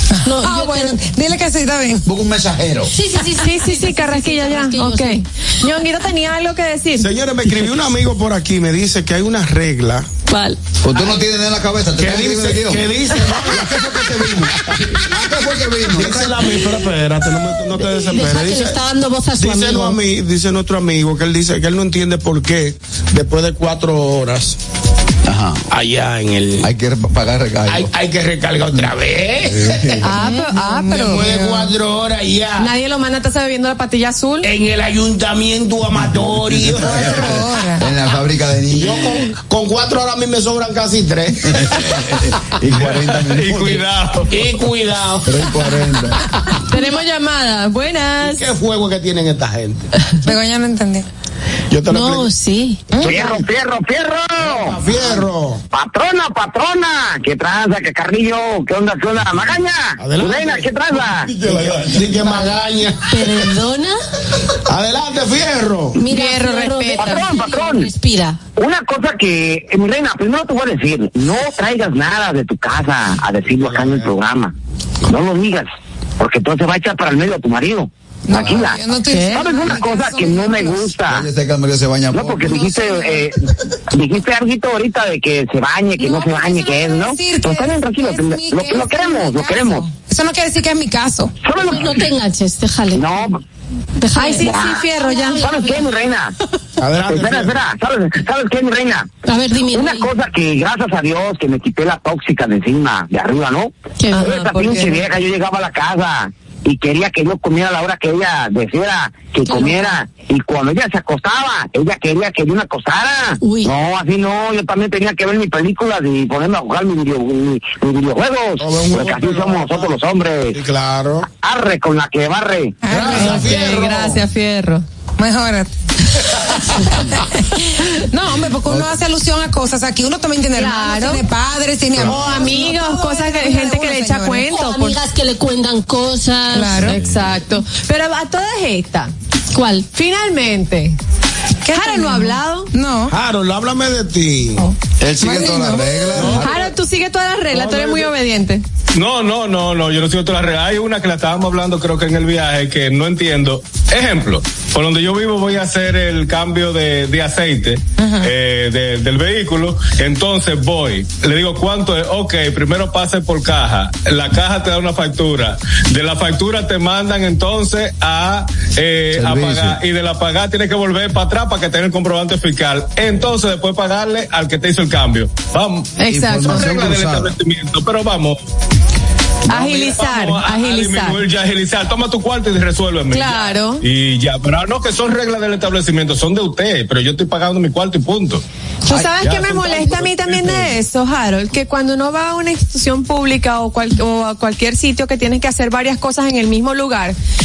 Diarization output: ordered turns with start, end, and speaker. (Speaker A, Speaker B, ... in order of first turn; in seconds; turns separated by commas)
Speaker A: 0.2-2.0, Speaker B: 0.2-1.0, Speaker C: 2.0-2.9, Speaker B: 2.9-5.2, Speaker D: 3.3-7.1, Speaker E: 7.0-10.1, Speaker B: 10.3-10.6, Speaker C: 10.8-16.6, Speaker E: 12.0-13.7, Speaker E: 15.9-18.8, Speaker B: 17.8-20.0, Speaker E: 19.4-24.6, Speaker C: 25.2-25.6, Speaker E: 25.7-26.7, Speaker C: 26.6-27.9, Speaker E: 27.7-30.0, Speaker C: 29.5-30.0, Speaker D: 30.0-31.3, Speaker A: 30.1-31.7, Speaker E: 30.9-32.7, Speaker D: 32.6-34.5, Speaker E: 34.4-37.4, Speaker C: 36.0-39.1, Speaker A: 36.8-37.9, Speaker E: 38.7-42.0, Speaker C: 41.5-43.8, Speaker F: 42.8-44.3, Speaker E: 44.3-45.7, Speaker C: 45.3-46.2, Speaker D: 46.7-48.5, Speaker E: 48.2-49.8, Speaker A: 50.2-51.0, Speaker E: 51.7-52.3, Speaker B: 51.9-52.8, Speaker A: 52.9-53.2, Speaker E: 53.0-53.4, Speaker G: 53.0-54.8, Speaker E: 54.4-55.6, Speaker G: 55.7-61.3, Speaker E: 60.0-63.5, Speaker B: 63.0-64.0, Speaker E: 64.7-66.0, Speaker B: 66.0-68.4, Speaker D: 66.1-67.4, Speaker G: 67.1-67.8, Speaker G: 68.6-74.5, Speaker C: 73.7-74.0, Speaker G: 75.0-75.7, Speaker G: 76.2-78.8, Speaker A: 78.3-80.9, Speaker B: 79.1-79.4, Speaker G: 79.3-81.2, Speaker C: 81.0-82.7, Speaker G: 82.1-83.3, Speaker A: 82.4-83.3, Speaker G: 83.9-89.8, Speaker A: 86.0-91.3, Speaker G: 91.4-91.8, Speaker B: 91.6-93.0, Speaker G: 92.9-93.3, Speaker B: 94.0-95.9, Speaker D: 94.2-95.7, Speaker G: 95.4-96.3, Speaker E: 96.8-97.6, Speaker G: 97.1-99.1, Speaker B: 99.2-100.1, Speaker G: 99.7-103.7, Speaker B: 104.0-104.9, Speaker D: 104.1-105.0, Speaker G: 104.3-120.6, Speaker B: 109.5-110.0, Speaker B: 113.4-113.7, Speaker E: 118.6-120.0, Speaker E: 120.5-121.3, Speaker G: 121.4-122.7, Speaker A: 122.8-123.7, Speaker E: 122.9-124.2, Speaker D: 123.1-124.8, Speaker A: 125.2-125.7, Speaker A: 127.0-134.6, Speaker D: 130.6-131.2, Speaker D: 132.0-134.9, Speaker B: 134.5-136.8, Speaker A: 136.5-137.0, Speaker D: 136.8-139.1, Speaker C: 137.1-137.4, Speaker B: 139.5-139.8, Speaker D: 139.9-141.0, Speaker A: 141.6-143.1, Speaker D: 141.7-142.7, Speaker E: 143.1-144.7, Speaker C: 145.0-146.6, Speaker A: 145.2-146.4, Speaker E: 146.2-146.7, Speaker D: 146.4-148.6, Speaker E: 147.5-148.1, Speaker F: 148.9-178.4, Speaker A: 158.0-158.3, Speaker C: 169.1-169.8, Speaker D: 176.0-176.7, Speaker C: 176.1-177.3, Speaker D: 179.5-181.2, Speaker F: 179.5-188.4, Speaker D: 183.1-183.8, Speaker D: 188.9-197.2, Speaker F: 189.2-190.7